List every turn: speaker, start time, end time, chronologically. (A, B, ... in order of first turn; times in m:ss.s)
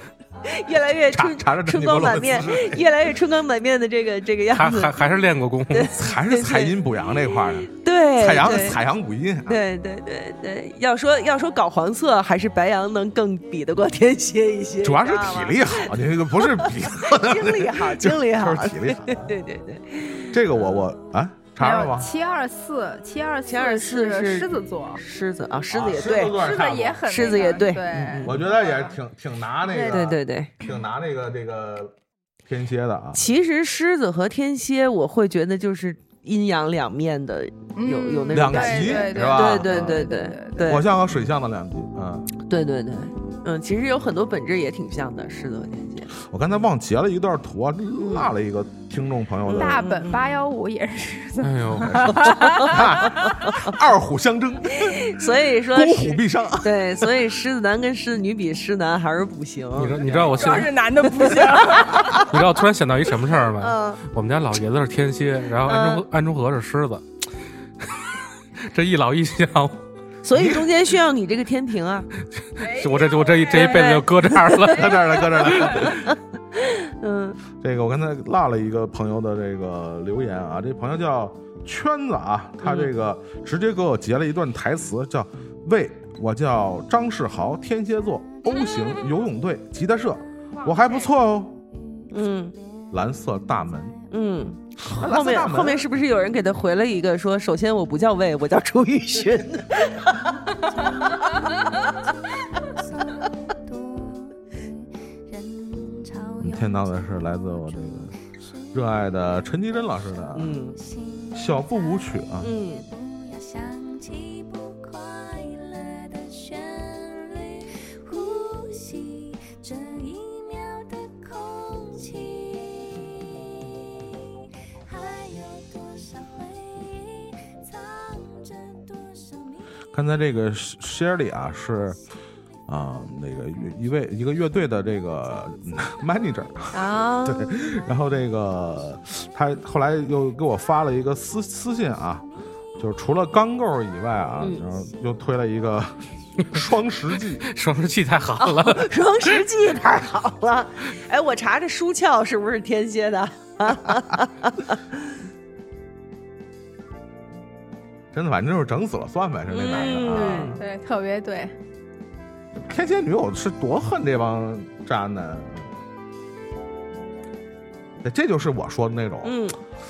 0:00.4-0:05.0 A
0:01.1-0:02.9 B
0:04.5-0:05.9 C
0:05.7-0:06.8 A
0:05.9-0:09.6 B
0:07.6-0:08.8 A
0:09.5-0:20.4 A
0:14.8-0:19.3 B
0:20.3-0:22.1 B
0:21.6-0:25.0 D
0:23.4-0:26.4 A
0:25.7-0:27.1 B
0:26.3-0:28.9 D
0:27.0-0:28.4 A
0:28.2-0:31.9 B
0:29.6-0:30.1 D
0:29.9-0:30.6 A
0:32.4-0:33.2 B
0:33.1-0:40.9 A
0:37.8-0:40.7 D
0:38.3-0:40.0 B
0:40.6-0:42.3 B
0:42.4-0:46.1 A
0:46.2-0:49.9 B
0:48.0-0:48.3 A
0:49.5-0:50.2 A
0:49.5-0:53.5 D
0:51.4-0:52.2 C
0:52.4-0:52.8 A
0:52.7-0:55.2 B
0:54.8-1:01.8 A
0:55.7-0:57.1 B
0:59.8-1:00.7 C
1:00.3-1:02.2 D
1:01.9-1:07.0 C
1:03.6-1:04.0 A
1:05.6-1:06.0 A
1:07.8-1:08.1 C
1:08.7-1:09.8 C
1:10.2-1:12.1 A
1:10.3-1:10.6 B
1:12.6-1:13.8 D
1:12.6-1:15.0 C
1:13.5-1:17.4 A
1:14.7-1:16.1 B
1:17.6-1:31.6 B
1:22.6-1:22.9 A
1:32.1-1:32.6 A
1:32.9-1:34.0 B
1:34.1-1:40.5 A
1:34.8-1:35.9 B
1:40.5-1:49.4 E
1:46.4-1:48.1 B
1:48.7-1:50.6 B
1:50.2-2:09.8 E
1:50.3-1:50.8 A
1:51.3-1:52.5 B
1:52.4-1:52.8 A
2:09.9-2:12.0 B
2:12.7-2:22.2 B
2:16.7-2:17.5 A
2:22.8-2:27.5 B
2:27.4-2:29.0 C
2:28.4-2:34.8 A
2:38.1-2:40.6 B
2:39.5-2:40.6 A
2:40.1-2:41.5 D
2:42.6-2:45.8 B
2:48.0-2:49.4 B
2:49.2-2:49.6 A